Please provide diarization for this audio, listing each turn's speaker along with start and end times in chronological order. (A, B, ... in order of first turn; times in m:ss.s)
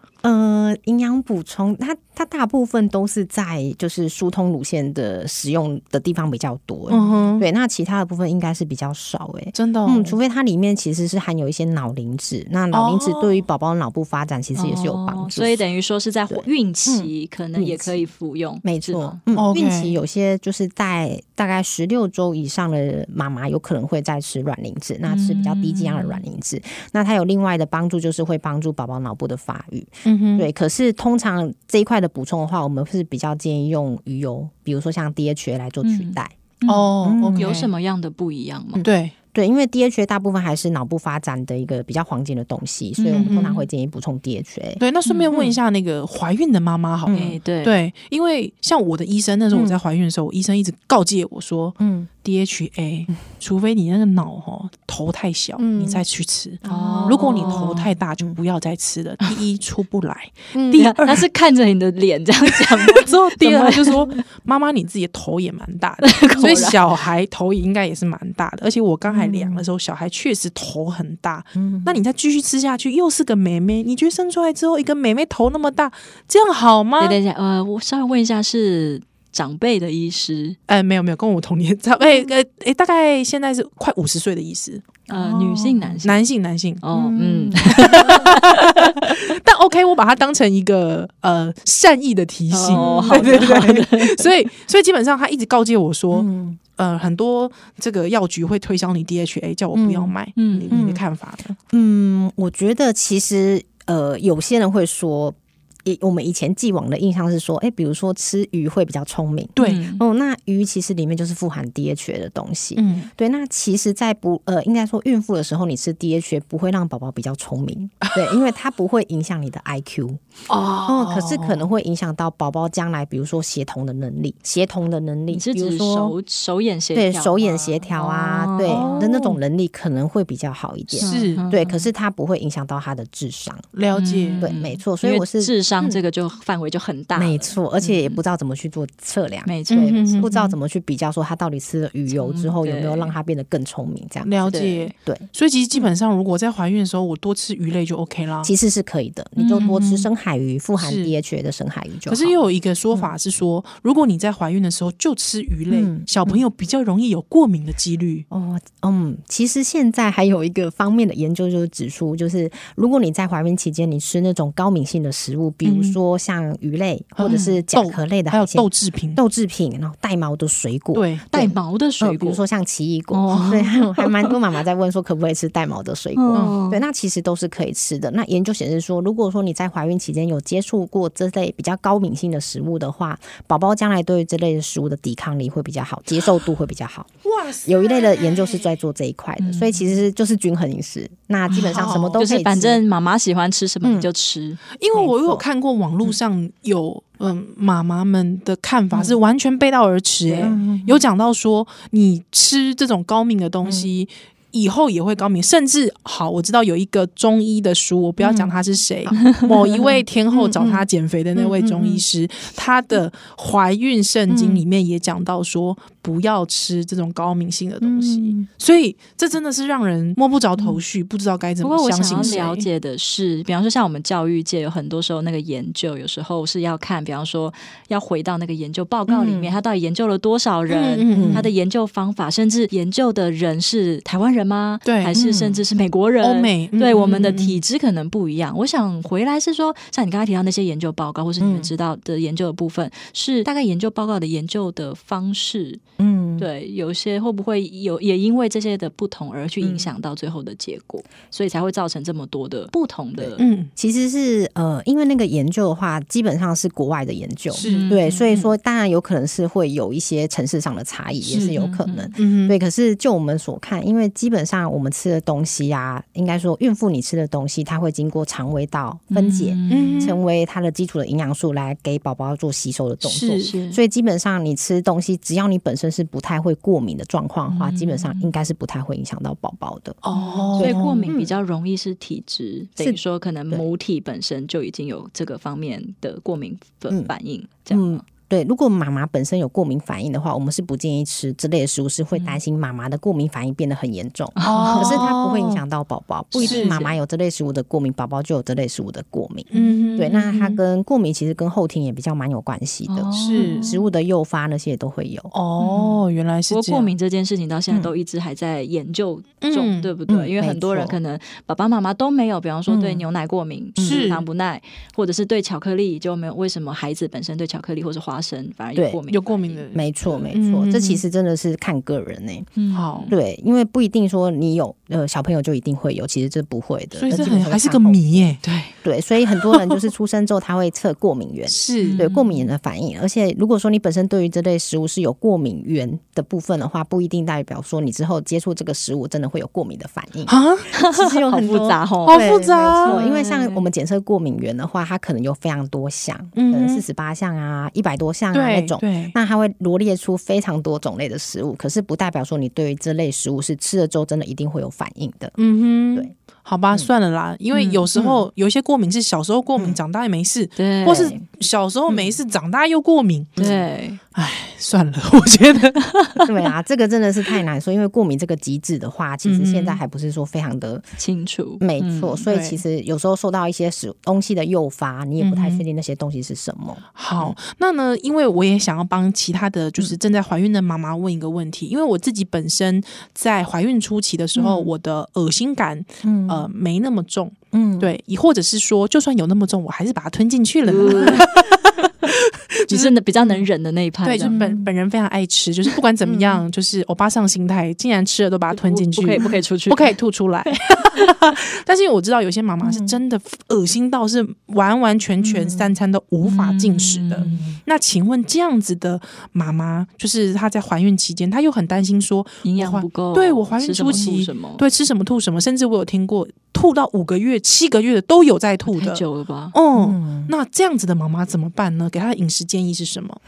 0:00.2-0:15.6 A
0:06.9-0:07.4 B
0:09.5-0:10.2 B
0:12.7-0:13.4 B
0:14.6-0:19.2 C
0:16.3-0:18.0 A
0:18.6-0:36.4 A
0:19.4-0:19.9 B
0:25.1-0:26.2 C
0:30.0-0:30.5 B
0:35.8-0:38.8 C
0:36.6-0:37.7 B
0:37.0-0:37.6 A
0:38.8-0:44.8 A
0:38.8-0:39.1 B
0:43.0-0:43.6 B
0:44.8-1:01.2 B
0:45.0-0:45.3 C
0:47.1-0:47.4 A
0:47.1-0:47.8 C
0:49.5-0:49.8 A
0:51.8-0:52.1 A
0:55.6-0:56.0 A
0:56.6-0:58.4 A
0:56.6-0:57.9 C
1:00.5-1:00.8 A
1:00.7-1:04.2 C
1:02.6-1:17.2 B
1:06.0-1:06.8 C
1:11.5-1:12.0 A
1:17.0-1:20.6 C
1:20.7-1:26.9 B
1:25.1-1:26.2 C
1:26.8-1:29.2 C
1:26.9-1:28.3 A
1:27.6-1:41.6 B
1:32.5-1:34.3 C
1:32.7-1:33.7 A
1:36.1-1:36.6 A
1:39.7-1:40.1 A
1:40.4-1:40.8 C
1:40.7-1:41.0 A
1:41.7-2:00.2 A
1:49.6-1:49.8 B
1:49.6-1:50.0 C
1:52.8-1:53.1 B
1:58.0-1:58.3 B
2:00.5-2:01.6 B
2:00.8-2:06.2 A
2:05.3-2:09.4 C
2:06.9-2:13.6 A
2:08.7-2:09.2 B
2:10.9-2:11.9 C
2:11.0-2:11.4 B
2:13.7-2:14.5 B
2:13.9-2:18.2 C
2:14.4-2:16.0 A
2:17.1-2:25.3 A
2:19.4-2:20.5 C
2:19.7-2:20.3 B
2:22.1-2:23.1 C
2:24.2-2:28.5 B
2:24.5-2:24.9 C
2:28.4-2:32.4 A
2:29.4-2:29.7 C
2:29.6-2:30.1 B
2:30.8-2:31.1 B
2:32.1-2:38.2 B
2:35.7-2:36.4 A
2:38.3-3:07.1 A
2:45.6-2:46.0 B
2:47.2-2:49.2 B
2:50.9-2:51.2 B
2:51.3-2:52.4 C
2:53.1-2:54.4 C
2:56.2-2:56.8 C
3:07.2-3:08.6 B
3:07.6-3:12.8 A
3:09.4-3:10.0 C
3:11.5-3:14.6 C
3:11.7-3:12.2 B
3:13.8-3:14.1 A
3:14.8-3:42.7 B
3:14.9-3:15.4 A
3:20.3-3:21.0 A
3:23.6-3:23.9 A
3:28.2-3:28.5 A
3:29.0-3:29.8 A
3:29.2-3:29.5 C
3:30.3-3:32.0 A
3:34.3-3:34.6 A
3:37.8-3:38.5 A
3:41.6-4:05.8 C
3:49.1-3:49.5 A
3:50.7-3:51.5 B
3:51.1-3:51.5 A
3:54.8-3:55.2 B
3:55.1-3:55.6 A
3:56.2-3:57.6 B
4:01.4-4:01.7 A
4:06.0-4:06.5 A
4:06.4-4:13.4 C
4:13.2-4:40.0 A
4:13.4-4:13.7 B
4:17.5-4:18.5 B
4:17.6-4:18.0 C
4:21.3-4:21.6 B
4:21.4-4:22.1 C
4:22.2-4:22.6 B
4:29.1-4:30.1 C
4:29.7-4:30.2 B
4:33.0-4:33.5 B
4:33.4-4:33.8 C
4:37.5-4:38.3 C
4:40.0-4:41.1 B
4:40.1-4:48.0 C
4:40.6-4:41.4 A
4:42.8-4:43.6 A
4:47.7-5:05.3 A
4:54.4-4:55.5 C
4:54.4-4:55.4 B
4:56.3-4:56.9 C
4:56.4-4:56.8 B
4:59.5-5:00.6 B
5:02.9-5:03.9 C
5:03.1-5:03.6 B
5:05.3-5:06.9 B
5:05.6-5:19.6 C
5:09.4-5:09.9 B
5:10.1-5:11.0 A
5:12.7-5:13.1 A
5:13.8-5:14.1 A
5:13.8-5:14.2 B
5:19.1-5:21.0 B
5:19.7-5:22.5 A
5:22.6-5:23.1 C
5:22.7-5:23.1 B
5:23.1-5:28.2 A
5:26.9-5:28.7 B
5:28.8-5:40.3 A
5:31.5-5:32.0 B
5:31.8-5:32.4 C
5:40.3-5:40.7 B
5:40.7-5:42.3 C
5:40.9-5:55.4 A
5:42.0-5:43.0 B
5:42.8-5:43.6 C
5:46.4-5:46.8 B
5:48.3-5:49.1 B
5:55.4-6:03.6 B
5:57.5-5:57.8 C
5:58.0-5:58.2 A
6:00.6-6:01.1 C
6:00.8-6:01.2 A
6:03.4-6:03.6 A
6:03.4-6:04.0 C
6:04.1-6:06.0 B
6:06.2-6:10.9 A
6:09.2-6:09.8 B
6:11.0-6:12.2 C
6:11.6-6:17.4 A
6:12.3-6:12.6 B
6:15.2-6:15.6 B
6:16.9-6:33.4 B
6:24.4-6:24.7 A
6:26.0-6:26.5 A
6:27.5-6:27.9 A
6:30.7-6:31.4 C
6:30.8-6:31.2 A
6:32.7-6:34.4 C
6:34.0-6:59.0 B
6:34.2-6:34.7 A
6:36.0-6:36.4 A
6:38.5-6:39.9 C
6:42.6-6:43.0 A
6:45.2-6:45.7 A
6:46.2-6:47.5 C
6:47.2-6:47.6 A
6:52.4-6:54.6 C
6:58.7-6:59.6 C
6:59.5-7:03.2 B
6:59.7-7:00.3 A